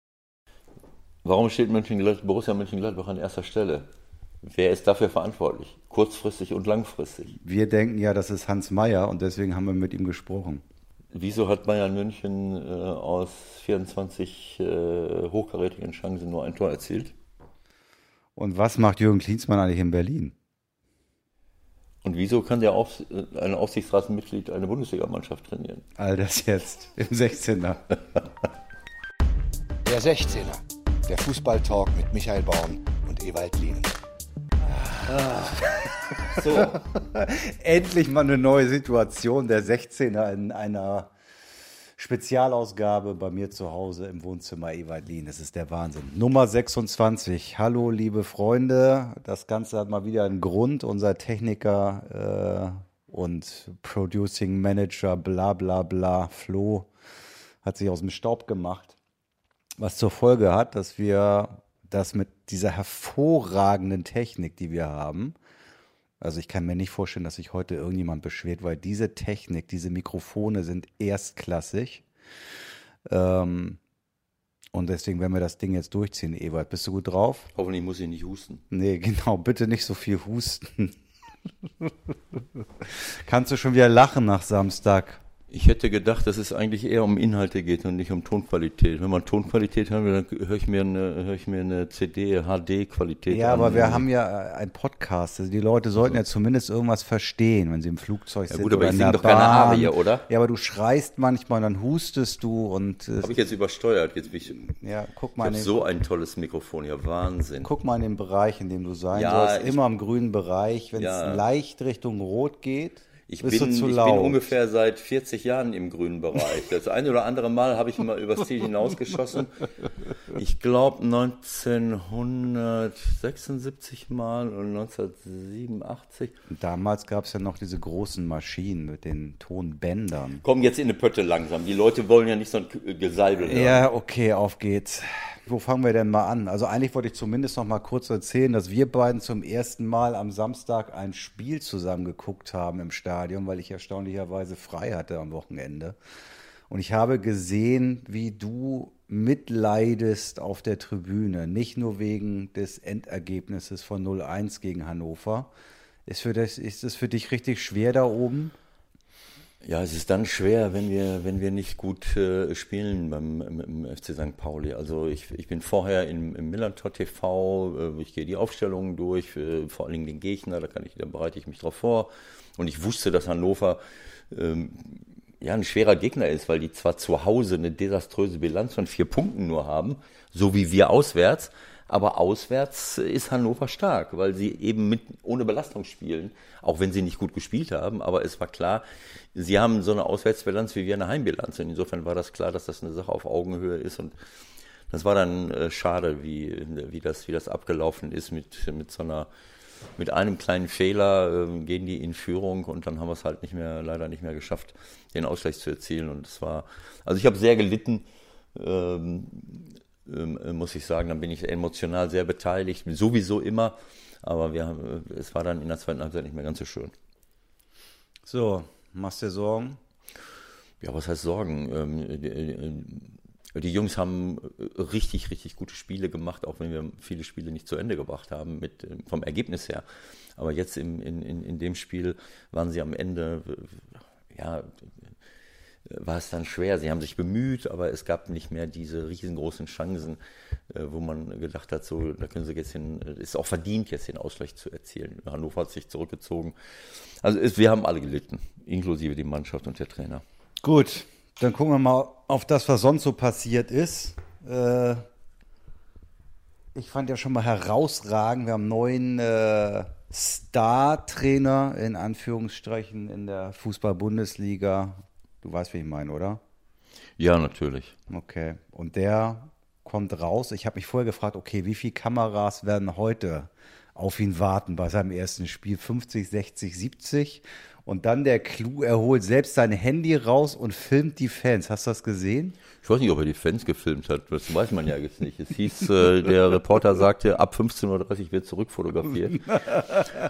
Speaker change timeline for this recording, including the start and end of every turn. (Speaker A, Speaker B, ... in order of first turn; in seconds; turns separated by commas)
Speaker A: 1.2-3.9, Speaker A: 4.4-7.4, Speaker B: 7.4-10.6, Speaker A: 11.1-17.1, Speaker B: 18.4-20.4, Speaker A: 22.0-25.8, Speaker B: 26.0-28.0, Speaker C: 29.9-33.9, Speaker B: 35.1-35.6, Speaker A: 36.3-36.8, Speaker B: 36.4-41.1, Speaker B: 42.0-56.9, Speaker B: 57.6-59.0, Speaker B: 59.8-65.3, Speaker B: 66.2-72.0, Speaker B: 73.1-73.8, Speaker B: 74.7-77.5, Speaker A: 77.5-78.6, Speaker B: 78.7-81.0, Speaker B: 82.8-85.2, Speaker A: 85.5-94.1, Speaker B: 93.3-103.4, Speaker A: 98.5-100.2, Speaker A: 103.2-104.7, Speaker B: 104.7-105.8, Speaker A: 105.4-107.7, Speaker B: 107.6-114.5, Speaker A: 109.1-109.8, Speaker A: 111.0-111.5, Speaker A: 113.3-119.5, Speaker A: 120.3-126.3, Speaker B: 126.5-130.4, Speaker A: 130.4-133.8, Speaker B: 133.4-146.0, Speaker B: 146.7-155.5, Speaker B: 156.1-158.5, Speaker A: 159.6-194.1, Speaker A: 194.9-199.3, Speaker A: 200.0-216.9, Speaker B: 218.3-219.8, Speaker A: 220.8-229.8, Speaker A: 230.4-234.9, Speaker A: 235.9-240.2, Speaker A: 240.7-246.5, Speaker A: 247.2-250.2, Speaker B: 250.6-255.1, Speaker B: 256.8-266.4, Speaker A: 267.2-267.9, Speaker B: 268.1-282.6, Speaker A: 282.8-290.1